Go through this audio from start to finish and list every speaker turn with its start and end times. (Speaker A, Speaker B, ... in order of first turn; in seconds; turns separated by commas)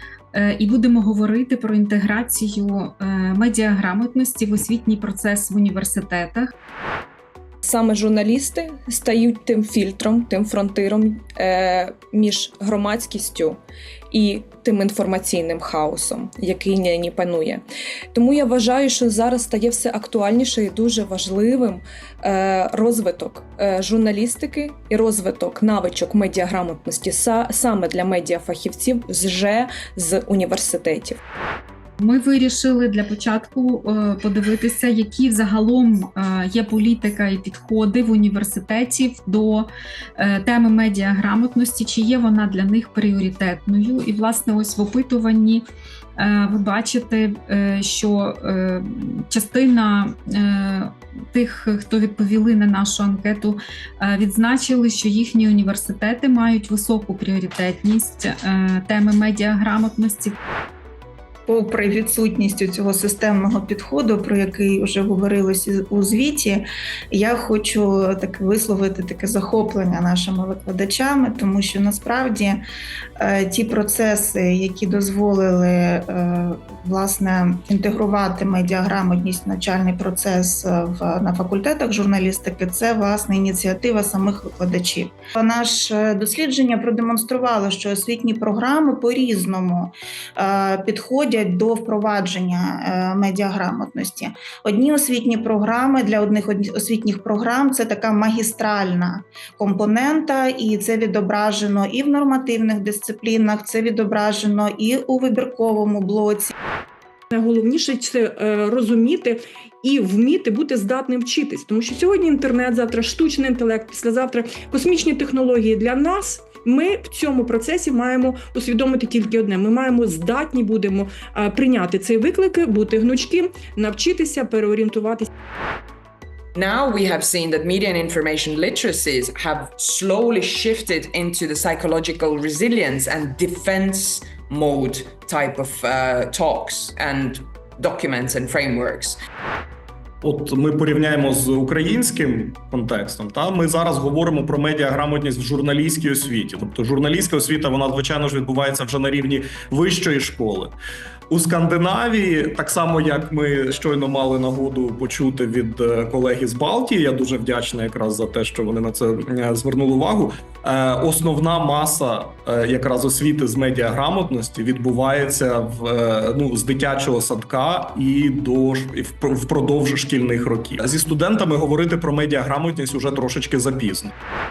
Speaker A: 0.3-6.5, Speaker B: 7.6-13.6, Speaker B: 14.1-31.2, Speaker A: 32.0-45.6, Speaker A: 46.2-60.4, Speaker C: 61.5-72.6, Speaker C: 73.2-106.5, Speaker D: 107.3-125.3, Speaker E: 126.5-139.2, Speaker F: 140.2-150.8, Speaker F: 151.3-174.1